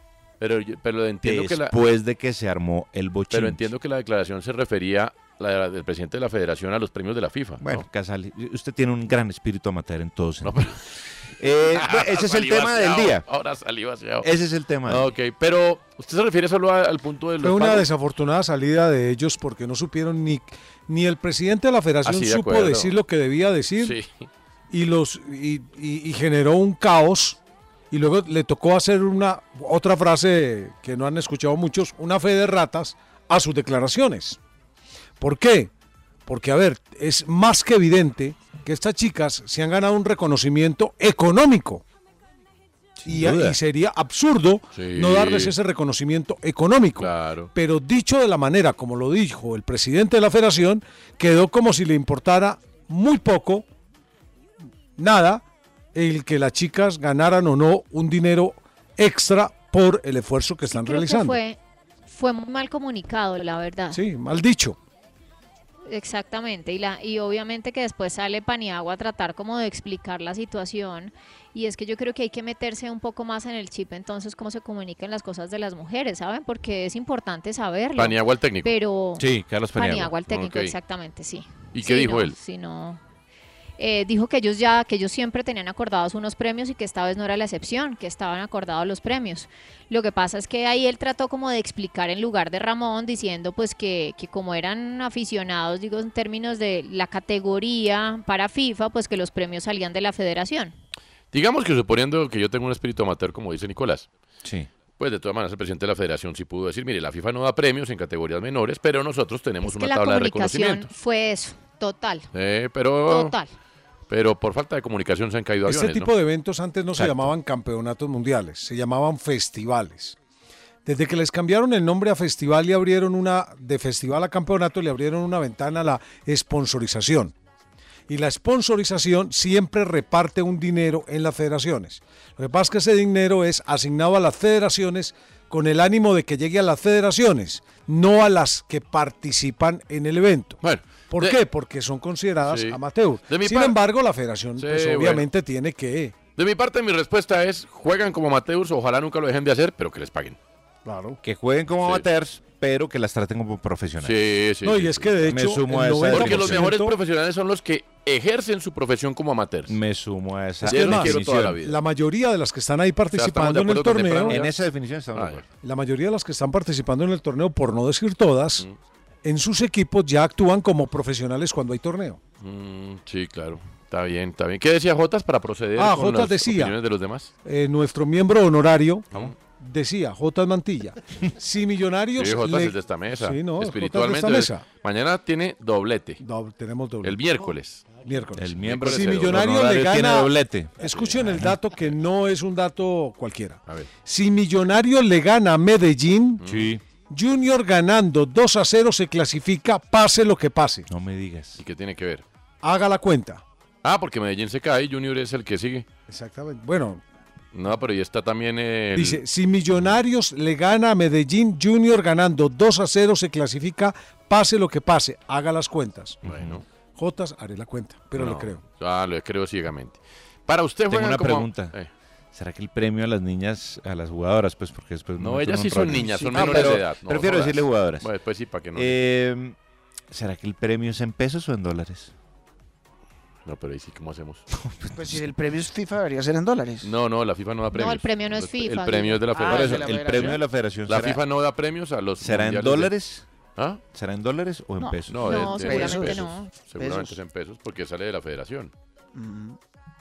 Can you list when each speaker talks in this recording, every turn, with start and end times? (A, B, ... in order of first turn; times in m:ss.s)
0:00.4-0:01.8 A
0:01.2-0:03.6 B
0:03.3-0:07.8 A
0:07.6-0:10.6 B
0:10.4-0:10.8 A
0:11.4-0:13.2 B
0:11.7-0:14.3 A
0:14.2-0:15.1 B
0:14.9-0:17.9 A
0:17.4-0:24.0 C
0:22.0-0:22.9 A
0:23.8-0:24.1 A
0:24.7-0:27.4 C
0:27.9-0:34.4 C
0:35.2-0:35.7 C
0:36.3-0:41.8 C
0:43.1-0:53.6 C
0:43.1-0:43.5 A
0:44.8-0:45.5 A
0:47.0-0:47.5 A
0:55.0-0:55.4 C
0:56.0-1:01.4 C
1:00.7-1:04.0 D
1:03.9-1:04.8 C
1:05.9-1:23.0 D
1:18.0-1:18.7 A
1:19.2-1:20.1 B
1:20.3-1:20.8 A
1:21.7-1:22.4 A
1:23.8-1:40.7 D
1:41.3-1:44.1 A
1:44.4-1:44.7 B
1:45.0-1:50.9 A
1:49.6-1:52.3 D
1:52.3-1:53.3 A
1:53.1-1:53.5 D
1:54.1-1:56.1 A
1:55.7-2:00.2 C
1:57.0-1:57.3 B
2:00.8-2:07.3 C
2:08.1-2:20.6 C
2:20.6-2:21.4 A
2:21.1-2:26.2 C
2:22.4-2:23.8 A
2:24.6-2:25.3 A
2:26.4-2:30.4 A
2:30.9-2:31.2 C
2:31.2-2:34.2 B
2:34.0-2:35.3 A
2:34.6-2:37.0 C
2:35.2-2:36.7 B
2:36.1-2:39.8 A
2:39.7-2:41.6 B
2:40.6-2:41.8 A
2:40.6-2:44.4 C
2:43.1-2:44.5 A
2:44.2-2:45.4 B
2:45.1-2:45.5 A
2:45.6-2:48.6 C
2:49.2-2:52.2 C
2:52.4-2:57.3 A
2:55.8-2:56.8 C
2:57.4-3:04.6 C
3:02.2-3:06.2 A
3:06.2-3:07.2 C
3:07.0-3:08.0 A
3:08.0-3:16.4 C
3:08.4-3:11.6 B
3:08.6-3:09.6 A
3:16.4-3:16.7 A
3:16.4-3:16.8 B
3:17.1-3:20.9 C
3:20.9-3:21.6 B
3:21.6-3:22.2 A
3:22.6-3:23.4 C
3:23.8-3:25.9 A
3:26.1-3:27.0 C
3:27.5-3:29.2 A
3:28.9-3:36.2 C
3:36.2-3:36.6 B
3:36.2-3:36.6 A
3:37.0-3:38.6 C
3:38.2-3:41.9 A
3:40.9-3:41.8 B
3:42.3-3:48.1 B
3:45.2-3:49.0 A
3:46.3-3:46.8 E
3:48.8-3:49.6 B
3:50.1-3:52.1 B
3:53.5-3:54.4 A
3:54.5-3:55.3 B
3:54.9-3:56.9 E
3:56.8-4:02.9 A
3:57.7-3:59.2 D
3:59.3-4:00.4 E
3:59.4-4:01.2 B
4:02.2-4:03.2 B
4:03.6-4:03.8 A
4:03.9-4:05.7 B
4:04.8-4:07.2 E
4:05.1-4:08.7 A
4:05.2-4:06.5 D
4:09.2-4:09.6 E